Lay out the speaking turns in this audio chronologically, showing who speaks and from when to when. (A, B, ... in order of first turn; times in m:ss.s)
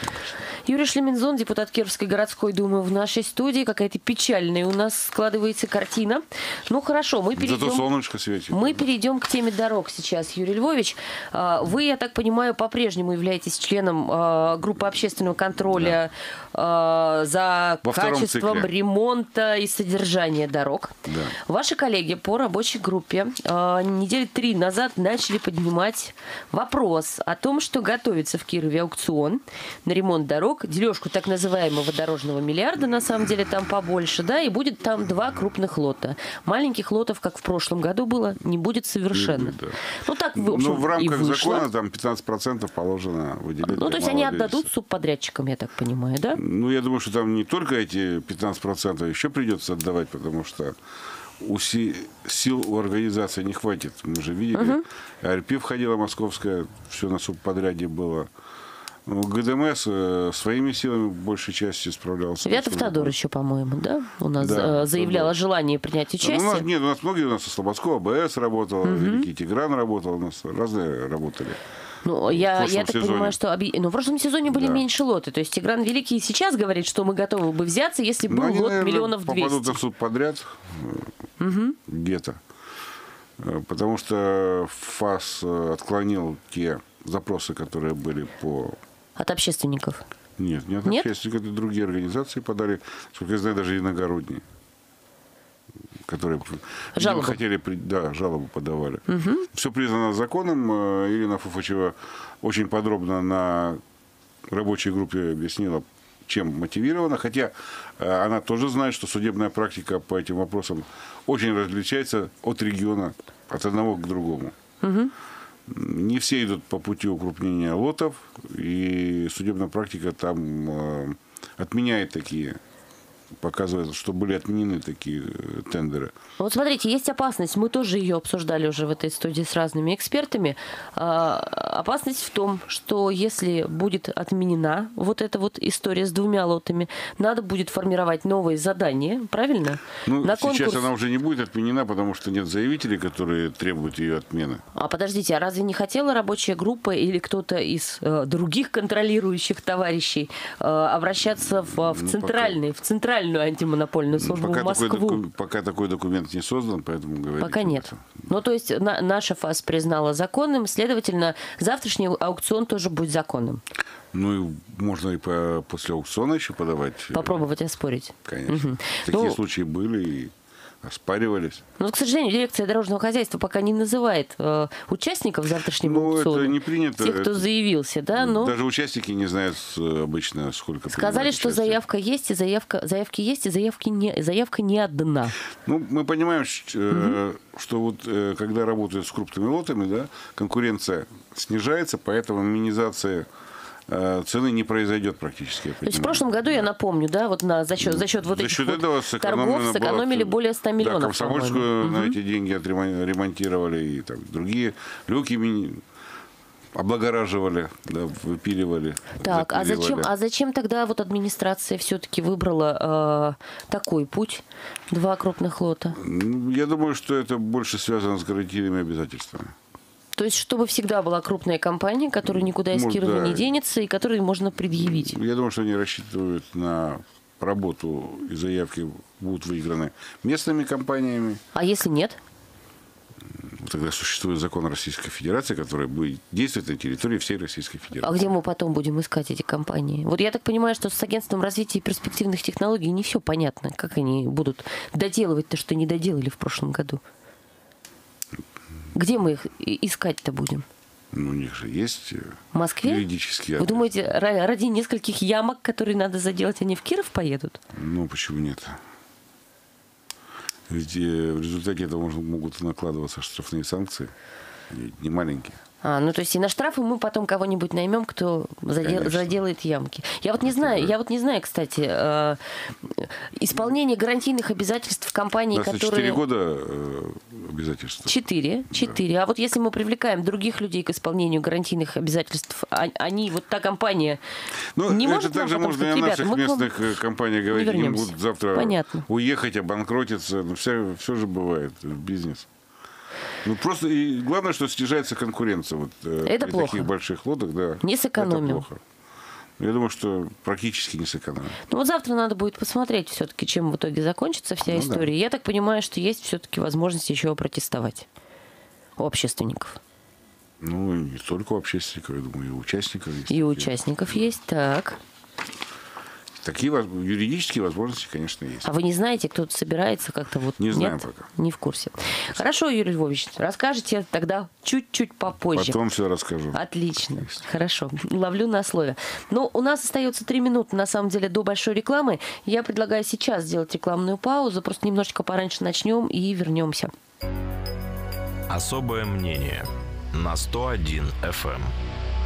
0:00.7-0:07.9 A
0:07.4-0:08.8 B
0:08.5-0:41.7 A
0:15.7-0:16.0 B
0:17.8-0:18.7 B
0:21.1-0:21.4 B
0:39.1-0:39.8 B
0:40.4-0:44.7 B
0:43.6-0:46.4 A
0:46.4-0:50.8 B
0:51.4-0:58.3 B
0:54.5-0:54.8 A
0:59.1-1:03.2 B
1:02.4-1:06.7 A
1:04.4-1:05.3 B
1:06.2-1:11.6 B
1:08.8-1:09.3 A
1:12.0-1:19.8 A
1:12.3-1:13.4 B
1:14.5-1:14.8 B
1:18.3-1:21.1 B
1:21.4-1:21.8 A
1:21.9-1:22.4 B
1:23.4-1:28.8 B
1:29.2-1:30.0 A
1:30.4-1:34.4 B
1:36.0-1:43.8 B
1:37.0-1:37.4 A
1:39.1-1:39.5 A
1:44.5-1:54.5 B
1:54.8-1:55.1 A
1:55.7-2:02.6 B
2:03.4-2:06.1 B
2:06.4-2:20.9 A
2:20.1-2:24.6 B
2:24.7-2:35.2 A
2:31.6-2:32.6 B
2:34.2-2:38.3 B
2:37.4-2:43.6 A
2:44.1-2:47.4 B
2:47.1-2:49.4 A
2:48.2-2:51.6 B
2:51.8-2:58.5 A
2:55.8-2:57.5 B
2:58.2-3:01.8 B
3:00.9-3:05.4 A
3:05.6-3:13.3 B
3:06.9-3:07.2 A
3:13.9-3:16.3 B
3:15.8-3:22.2 A
3:17.8-3:25.8 B
3:26.8-3:30.1 B
3:29.2-3:36.0 A
3:36.0-3:39.6 B
3:40.2-3:45.2 A
3:42.3-3:43.5 B
3:44.7-3:51.4 B
3:51.5-3:52.2 A
3:53.4-3:58.2 B
3:58.0-4:07.0 A
4:08.9-4:10.7 A
4:11.1-4:13.9 B
4:12.5-4:13.1 A
4:13.6-4:17.6 A
4:17.7-4:18.8 B
4:20.7-4:24.1 B
4:24.7-4:25.6 B
4:25.8-4:36.2 A
4:28.8-4:29.4 B
4:30.4-4:30.9 B
4:35.5-4:38.2 B
4:38.1-4:44.2 A
4:44.8-4:52.5 B
4:44.9-4:46.8 A
4:47.5-4:49.1 A
4:53.4-4:58.8 B
4:56.2-4:56.9 A
4:57.8-4:58.6 A
4:59.6-5:01.6 B
5:01.7-5:08.1 A
5:04.7-5:05.1 B
5:09.0-5:09.8 A
5:10.6-5:13.7 B
5:13.3-5:15.0 A
5:16.4-5:18.7 B
5:18.6-5:25.8 A
5:20.6-5:21.3 B
5:25.5-5:26.6 B
5:26.5-5:36.9 A
5:38.5-5:41.7 C